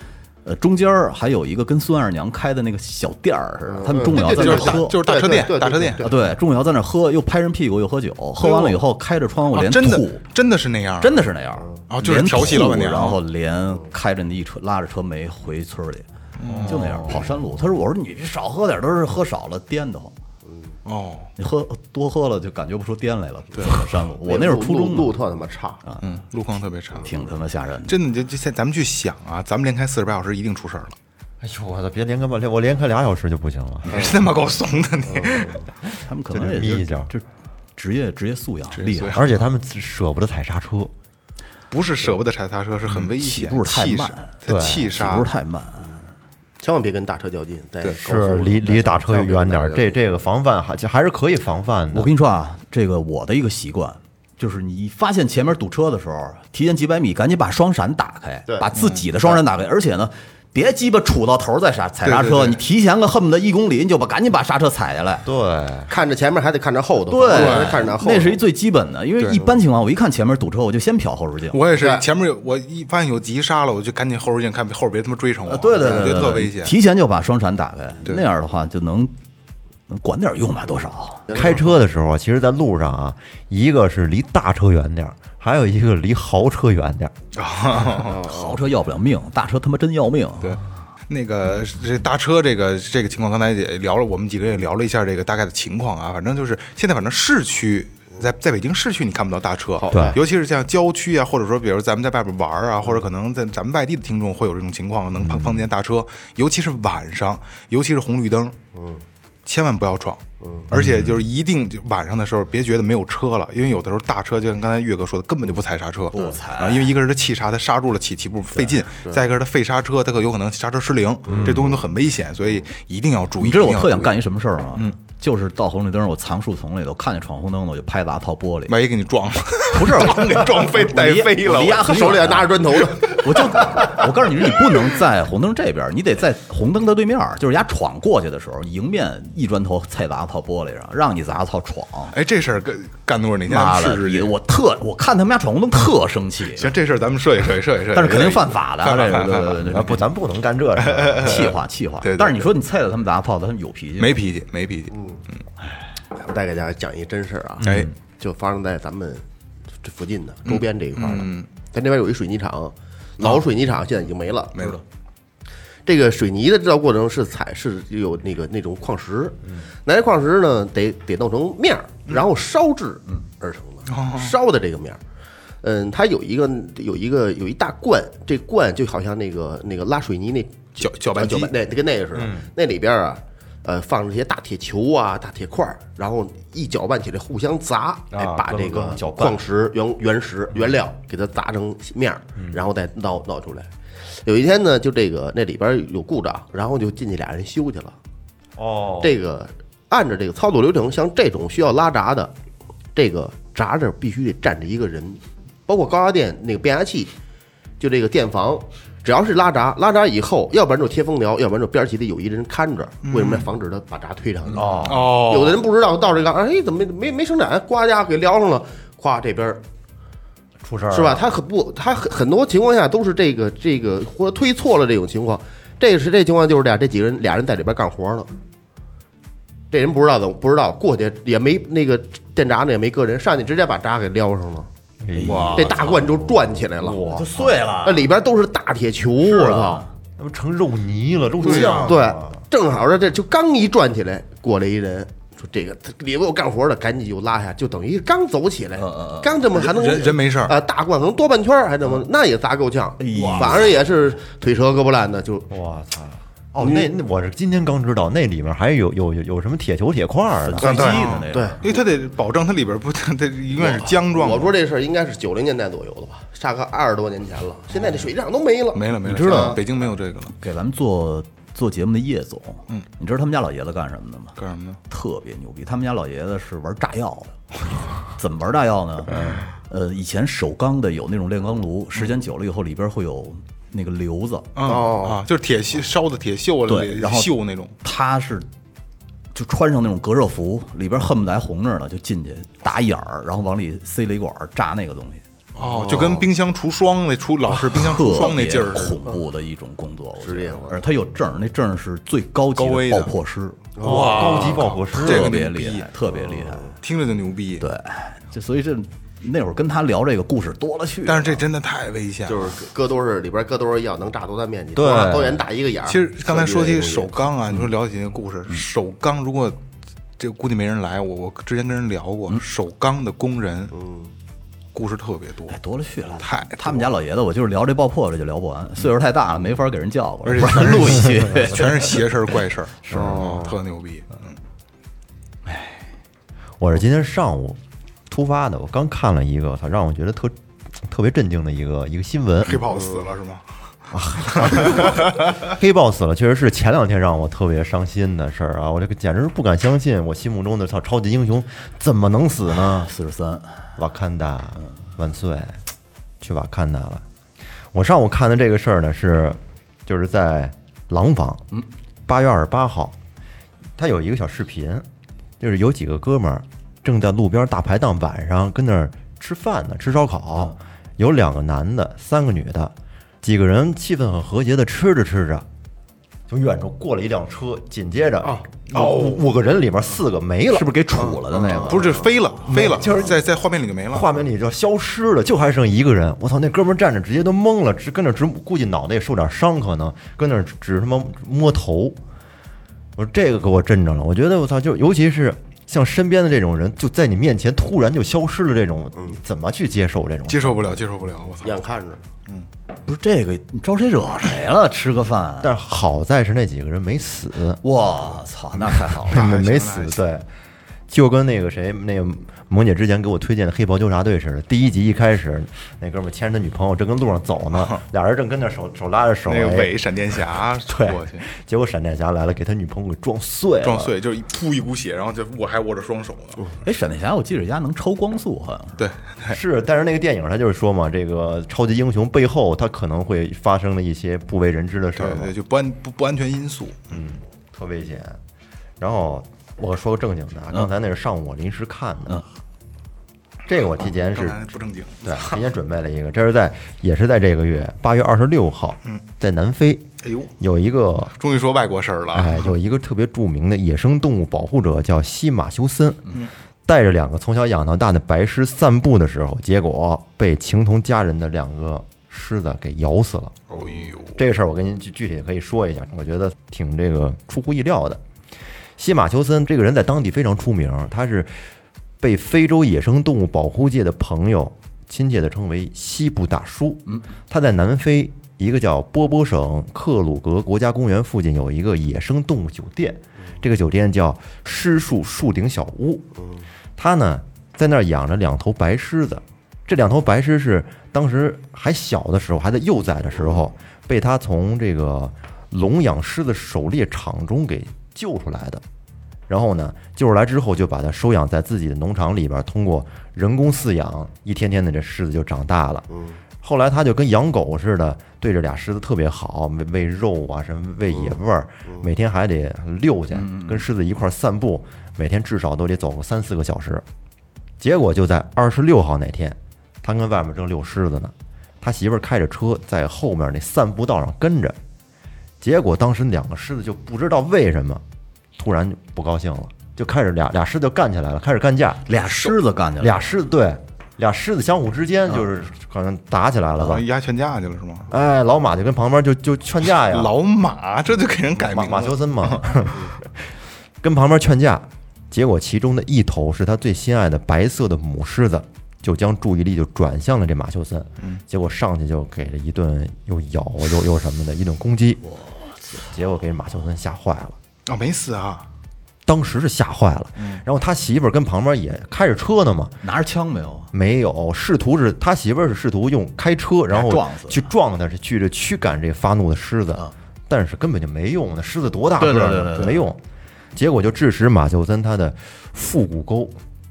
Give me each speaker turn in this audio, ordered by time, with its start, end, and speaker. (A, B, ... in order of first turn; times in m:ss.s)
0:00.4-0:05.0 A
0:03.7-0:06.2 B
0:04.1-0:06.1 C
0:06.0-0:10.2 A
0:08.4-0:08.8 C
0:09.5-0:11.2 C
0:11.0-0:16.0 A
0:11.9-0:13.2 C
0:16.4-0:17.2 C
0:16.6-0:20.1 A
0:20.8-0:21.3 C
0:21.4-0:25.1 A
0:24.2-0:25.8 B
0:26.0-0:27.1 C
0:27.0-0:28.0 A
0:27.9-0:31.0 C
0:31.4-0:33.9 D
0:33.8-0:35.6 C
0:33.9-0:34.2 B
0:35.1-0:35.7 B
0:36.0-0:39.3 A
0:36.3-0:37.1 D
0:38.7-0:39.2 C
0:39.1-0:40.9 D
0:41.7-0:45.3 C
0:43.2-0:46.1 A
0:44.5-0:44.9 D
0:46.6-0:49.9 B
0:48.0-0:52.1 D
0:51.9-1:05.2 A
0:58.8-0:59.0 C
1:02.0-1:02.6 C
1:05.2-1:05.9 D
1:05.9-1:08.4 B
1:07.1-1:11.6 A
1:07.3-1:07.8 C
1:11.5-1:16.8 C
1:11.7-1:12.0 B
1:15.4-1:19.1 A
1:19.9-1:21.3 A
1:21.3-1:21.7 B
1:21.3-1:27.1 D
1:27.3-1:28.2 C
1:28.0-1:28.6 B
1:28.1-1:30.6 A
1:30.4-1:48.6 C
1:39.8-1:40.2 B
1:39.9-1:40.2 D
1:45.2-1:45.6 D
1:48.7-1:49.0 B
1:49.4-2:04.2 C
1:50.4-1:50.7 B
1:50.7-1:51.0 D
1:56.1-1:56.9 A
2:01.3-2:01.8 B
2:03.4-2:08.7 A
2:08.7-2:12.1 C
2:09.7-2:22.1 A
2:11.6-2:13.3 B
2:22.1-2:24.3 C
2:23.5-2:26.7 A
2:26.6-2:29.8 C
2:27.9-2:30.0 A
2:29.7-2:31.4 D
2:30.8-2:32.4 C
2:31.1-2:34.2 A
2:34.0-2:34.9 C
2:34.9-2:35.2 B
2:36.1-2:39.2 B
2:37.6-2:37.9 D
2:37.6-2:37.9 C
2:39.8-2:44.7 B
2:40.4-2:41.5 C
2:44.5-2:44.8 C
2:45.9-2:55.0 B
2:53.9-2:54.3 C
2:55.6-3:13.7 B
3:00.8-3:01.5 C
3:02.1-3:02.5 D
3:08.1-3:09.4 D
3:14.2-3:17.9 B
3:18.6-3:19.2 D
3:19.0-3:22.3 B
3:22.9-3:27.1 B
3:27.8-3:39.6 B
3:33.0-3:33.5 C
3:34.5-3:35.1 D
3:34.8-3:35.6 C
3:40.6-3:41.2 D
3:40.9-3:48.3 B
3:49.7-3:54.7 B
3:55.0-3:57.5 D
3:55.1-3:56.1 A
3:55.2-3:55.8 C
3:55.5-3:57.2 B
3:57.0-3:58.1 A
3:57.8-3:59.8 B
3:59.2-3:59.9 A
4:00.2-4:02.4 D
4:01.4-4:02.0 C
4:01.4-4:15.5 B
4:08.8-4:09.3 A
4:09.5-4:10.6 C
4:13.0-4:13.8 A
4:15.5-4:21.0 D
4:16.6-4:16.9 B
4:20.4-4:21.6 A
4:20.6-4:21.8 B
4:20.6-4:24.5 C
4:23.5-4:29.6 B
4:27.8-4:28.1 C
4:28.7-4:30.3 C
4:29.0-4:29.6 A
4:30.3-4:34.4 A
4:34.4-4:34.8 C
4:34.9-4:37.4 A
4:38.0-4:44.5 A
4:44.5-4:47.8 C
4:44.6-4:45.2 B
4:46.7-4:48.5 A
4:49.3-4:56.2 A
4:55.5-4:59.0 C
4:57.6-5:03.6 A
5:00.2-5:00.8 B
5:02.5-5:03.1 C
5:03.8-5:04.3 B
5:03.8-5:05.9 C
5:03.8-5:05.3 D
5:04.2-5:06.8 A
5:06.3-5:06.7 B
5:06.8-5:07.6 C
5:07.6-5:11.4 A
5:11.1-5:12.5 C
5:12.2-5:17.1 B
5:14.7-5:15.4 D
5:15.8-5:19.6 C
5:20.2-5:23.7 C
5:23.7-5:24.1 B
5:24.7-5:25.6 C
5:25.5-5:32.0 A
5:26.2-5:26.9 C
5:30.2-5:34.4 C
5:32.9-5:33.2 D
5:32.9-5:33.5 B
5:35.4-5:35.8 A
5:36.6-5:42.6 D
5:42.4-5:43.4 C
5:42.7-5:43.0 B
5:43.9-5:52.9 D
5:44.2-5:45.1 C
5:52.7-5:53.7 A
5:53.8-5:55.6 D
5:56.2-5:57.0 D
5:57.7-6:01.4 D
6:02.1-6:03.0 D
6:03.8-6:04.9 D
6:05.4-6:15.4 D
6:16.3-6:20.7 D
6:18.7-6:19.2 C
6:20.5-6:22.0 A
6:21.0-6:21.9 B
6:21.6-6:24.1 C
6:22.4-6:23.2 D
6:23.9-6:32.0 D
6:33.0-6:40.8 D
6:40.3-6:41.6 C
6:41.4-6:42.0 B
6:42.8-6:45.5 A
6:45.4-6:47.6 D
6:47.6-6:49.3 A
6:49.1-6:50.0 C
6:49.1-6:50.3 D
6:50.9-6:59.7 D
6:59.2-7:01.2 C
7:00.7-7:03.9 D
7:03.6-7:06.5 C
7:06.6-7:08.8 A
7:08.8-7:09.4 C
7:09.3-7:15.3 D
7:15.0-7:17.0 C
7:16.9-7:18.2 D
7:18.8-7:22.2 D
7:23.5-7:24.5 D
7:24.0-7:25.3 C
7:25.0-7:29.9 D
7:30.0-7:30.3 C
7:30.4-7:31.1 D
7:31.2-7:32.5 C
7:32.1-7:48.0 D
7:43.5-7:44.2 C
7:48.8-7:51.3 D
7:52.0-8:06.0 D
8:06.8-8:18.6 D
8:19.3-8:25.9 D
8:25.9-8:26.2 B
8:26.4-8:36.8 D
8:33.1-8:33.6 A
8:37.6-8:44.6 D
8:45.4-8:47.8 D
8:48.4-8:51.9 D
8:51.9-8:53.0 A
8:52.8-8:56.9 D
8:56.6-8:57.9 C
8:57.9-9:00.1 D
8:59.6-9:02.7 C
9:01.4-9:03.1 D
9:03.8-9:15.0 D
9:15.0-9:15.8 A
9:15.8-9:17.4 D
9:17.6-9:18.4 C
9:19.0-9:22.8 D
9:20.2-9:20.4 C
9:22.8-9:23.7 A
9:23.7-9:33.0 D
9:26.7-9:27.4 A
9:32.0-9:32.8 A
9:33.5-9:36.4 D